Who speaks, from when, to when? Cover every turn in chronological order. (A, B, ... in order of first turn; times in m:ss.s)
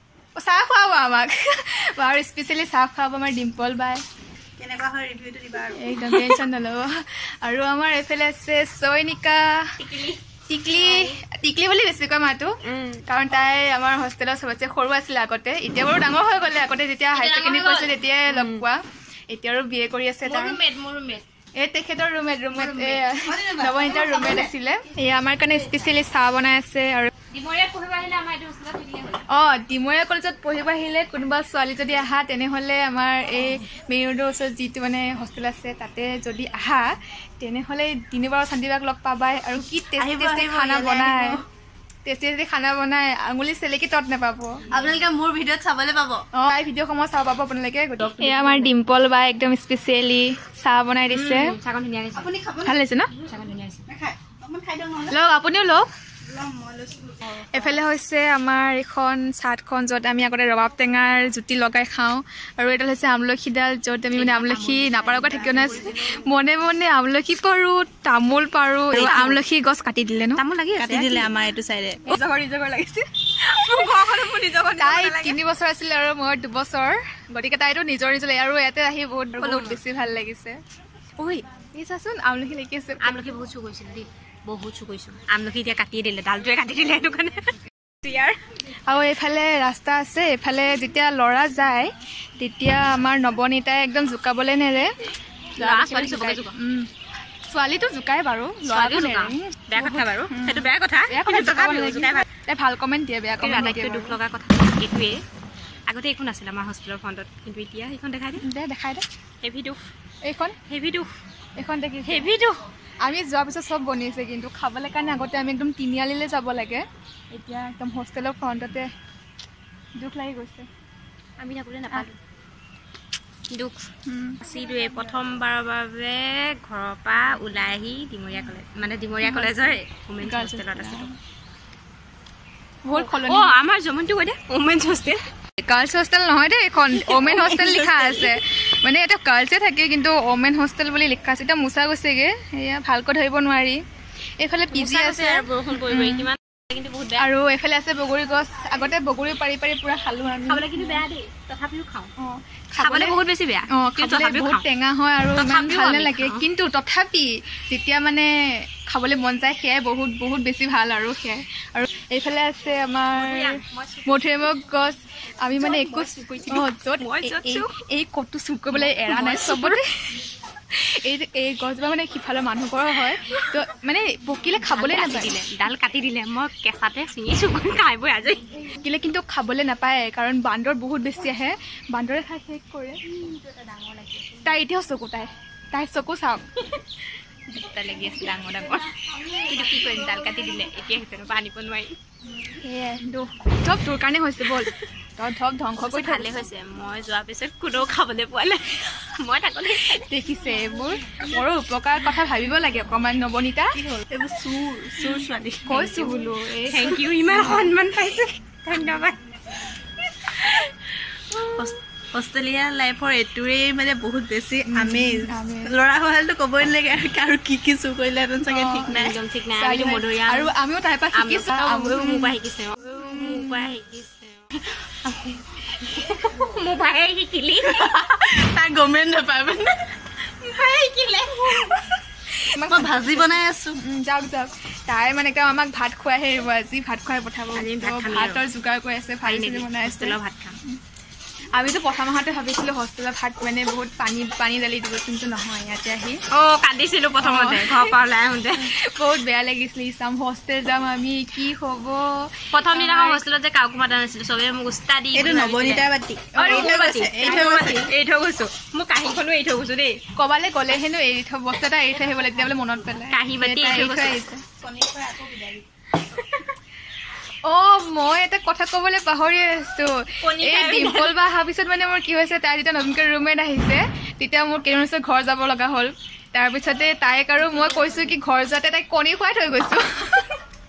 0:00.4-0:04.0 A
0:04.6-0:06.2 B
0:05.7-0:09.7 A
0:09.8-0:10.2 C
0:10.5-0:20.6 A
0:10.7-0:11.2 C
0:12.6-0:13.0 C
0:17.1-0:18.6 C
0:20.2-0:21.2 C
0:21.6-0:27.1 A
0:22.5-0:23.1 C
0:23.2-0:24.4 B
0:23.9-0:24.4 C
0:27.3-0:29.2 C
0:29.3-0:41.4 A
0:40.0-0:41.4 B
0:42.0-0:44.6 A
0:44.7-0:46.2 B
0:46.3-0:51.5 A
0:48.0-0:48.7 C
0:51.1-0:52.3 C
0:52.1-0:52.8 B
0:52.6-0:53.1 A
0:53.2-0:53.8 C
0:53.9-0:55.2 B
0:55.1-0:55.9 A
0:56.2-0:57.2 B
0:57.4-0:57.8 C
0:57.5-1:10.4 A
1:04.1-1:06.2 C
1:08.9-1:09.4 C
1:10.4-1:11.3 C
1:10.8-1:12.1 B
1:12.0-1:13.6 A
1:13.6-1:15.3 C
1:13.8-1:15.1 B
1:14.8-1:20.6 A
1:19.4-1:19.8 C
1:21.2-1:23.2 A
1:23.0-1:27.5 C
1:28.0-1:28.4 C
1:28.9-1:34.9 A
1:35.6-1:36.6 C
1:35.6-1:36.9 A
1:37.4-1:44.2 A
1:38.6-1:42.2 C
1:43.4-1:45.2 C
1:45.9-1:48.4 C
1:48.4-1:49.0 A
1:49.4-1:49.8 C
1:50.2-1:50.6 A
1:50.7-1:51.1 C
1:51.6-1:52.3 A
1:52.0-1:52.6 C
1:53.0-1:58.9 A
2:00.0-2:00.7 A
2:01.4-2:02.2 C
2:03.5-2:03.9 C
2:04.0-2:04.4 A
2:04.4-2:11.1 C
2:09.2-2:11.2 A
2:12.8-2:13.5 A
2:12.9-2:15.2 C
2:15.6-2:23.8 A
2:17.0-2:18.4 B
2:24.4-2:26.3 A
2:24.7-2:27.3 C
2:27.2-2:31.0 A
2:30.5-2:32.1 C
2:32.2-2:33.2 A
2:32.8-2:34.6 C
2:33.7-2:38.3 A
2:35.4-2:36.4 C
2:38.8-2:50.1 A
2:43.1-2:44.4 C
2:45.5-2:47.7 C
2:48.7-2:49.8 C
2:50.7-2:55.4 A
2:54.6-2:58.4 C
2:58.8-3:03.0 A
3:03.0-3:04.5 C
3:04.4-3:06.6 A
3:07.5-3:12.0 C
3:12.4-3:16.3 A
3:15.8-3:20.1 C
3:19.9-3:23.8 A
3:23.7-3:25.9 B
3:25.6-3:27.7 A
3:25.8-3:26.1 C
3:26.7-3:29.2 C
3:30.3-3:30.7 C
3:31.6-3:39.2 B
3:34.7-3:35.8 A
3:38.5-3:39.0 A
3:38.8-3:40.5 C
3:39.5-3:42.3 A
3:41.1-3:47.8 C
3:43.0-3:43.7 A
3:47.6-3:49.9 B
3:50.4-3:51.8 C
3:52.4-4:00.8 A
3:52.7-3:53.8 B
3:57.5-3:58.4 C
3:59.2-4:00.6 C
4:01.5-4:06.2 A
4:06.3-4:08.7 C
4:07.2-4:07.9 A
4:08.6-4:13.2 A
4:12.5-4:20.0 C
4:15.1-4:17.9 B
4:16.3-4:17.4 A
4:20.1-4:24.4 A
4:23.1-4:24.2 C
4:24.6-4:25.6 B
4:26.2-4:26.4 C
4:27.4-4:40.4 A
4:30.2-4:31.1 C
4:37.8-4:38.1 C